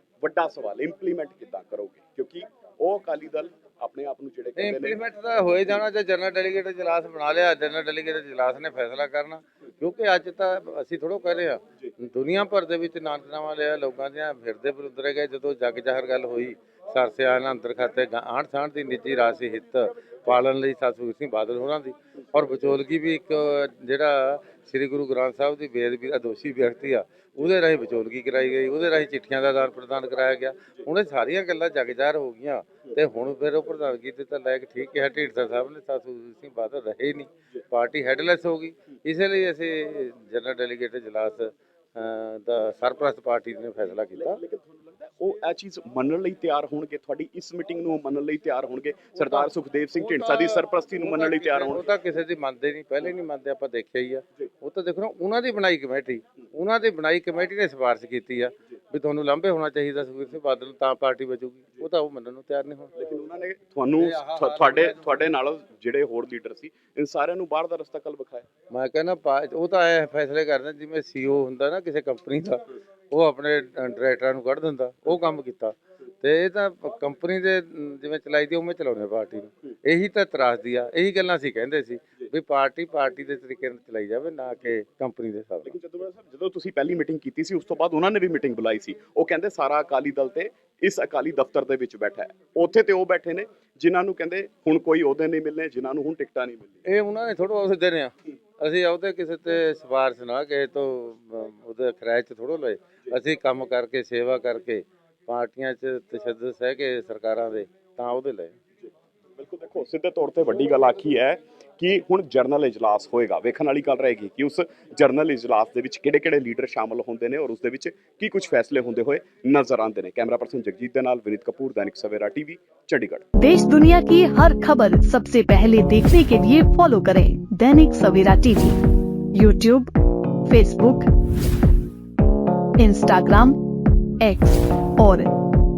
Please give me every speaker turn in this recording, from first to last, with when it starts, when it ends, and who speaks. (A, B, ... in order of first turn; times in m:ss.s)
0:00.2-0:05.0 A
0:04.6-0:44.4 B
0:44.2-0:51.8 A
0:49.2-1:02.9 B
1:03.0-1:08.5 A
1:04.0-1:05.1 B
1:08.7-1:25.8 B
1:25.6-1:36.8 A
1:36.8-1:48.5 B
1:49.4-2:03.2 A
2:03.4-2:08.8 C
2:09.3-2:09.9 C
2:10.5-2:11.1 C
2:12.8-2:13.6 C
2:14.2-2:15.3 C